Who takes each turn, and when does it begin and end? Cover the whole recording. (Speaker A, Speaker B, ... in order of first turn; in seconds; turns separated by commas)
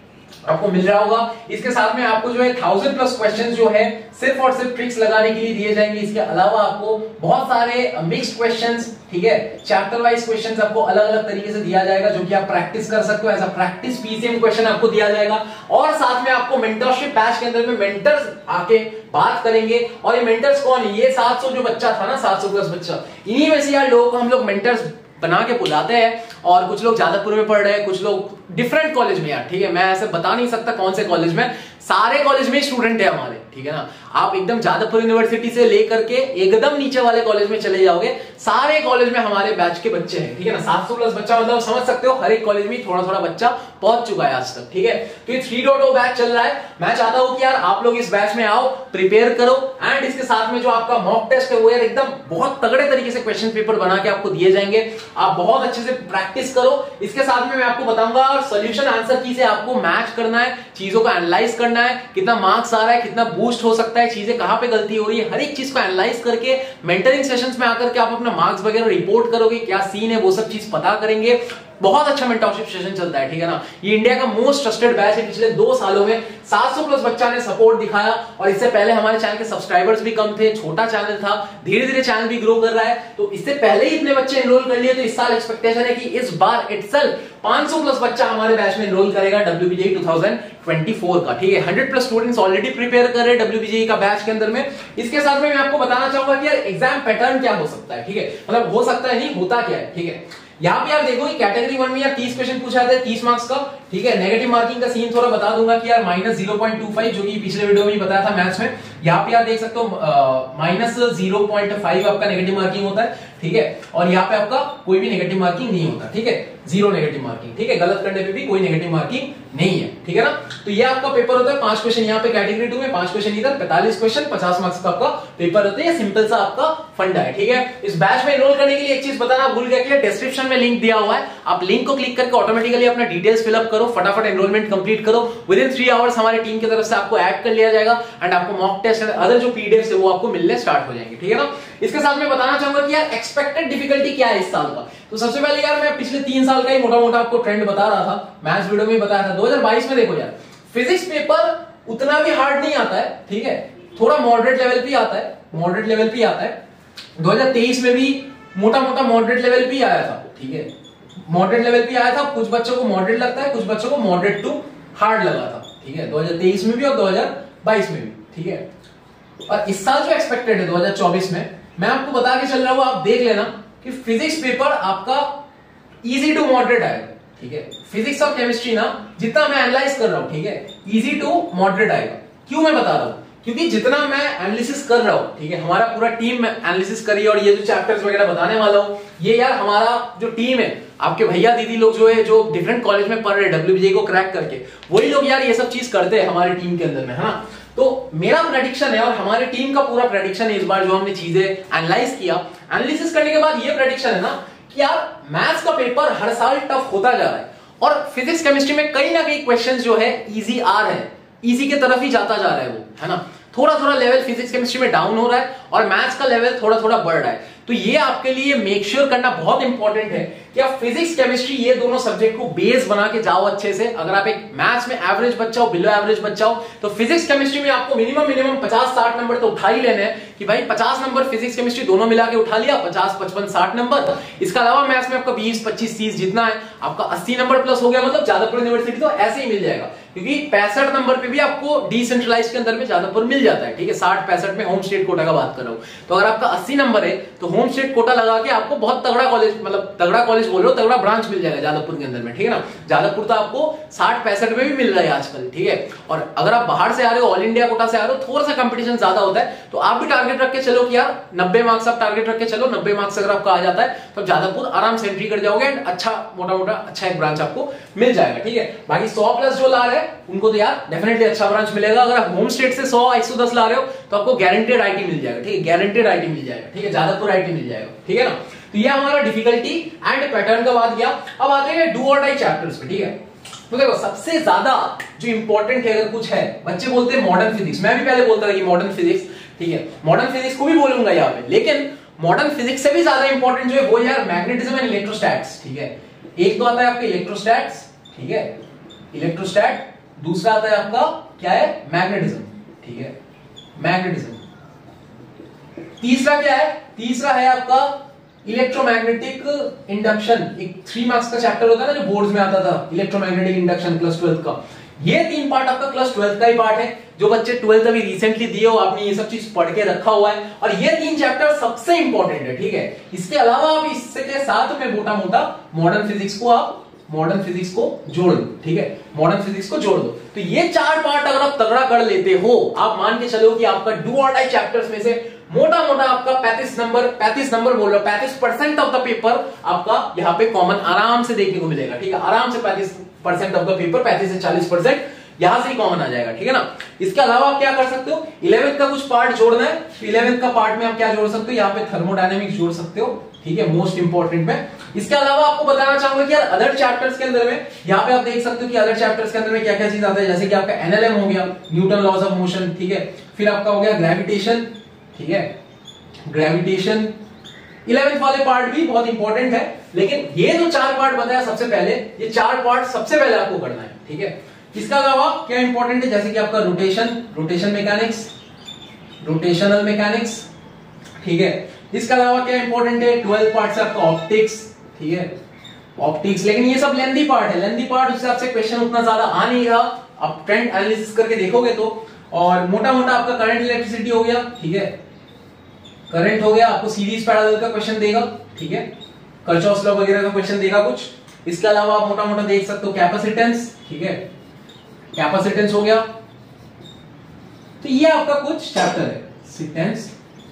Speaker A: 0.5-156.6, Speaker A: 157.2-160.7, Speaker A: 161.2-168.7, Speaker A: 169.5-175.3, Speaker A: 176.0-283.2, Speaker A: 283.7-298.5, Speaker A: 299.1-303.1, Speaker A: 303.8-304.4, Speaker A: 306.0-365.5, Speaker A: 366.3-367.1, Speaker A: 367.9-378.3, Speaker A: 379.2-380.5, Speaker A: 381.2-385.3, Speaker A: 386.0-394.9, Speaker A: 396.1-398.9, Speaker A: 399.4-404.2, Speaker A: 405.1-406.1, Speaker A: 407.8-410.1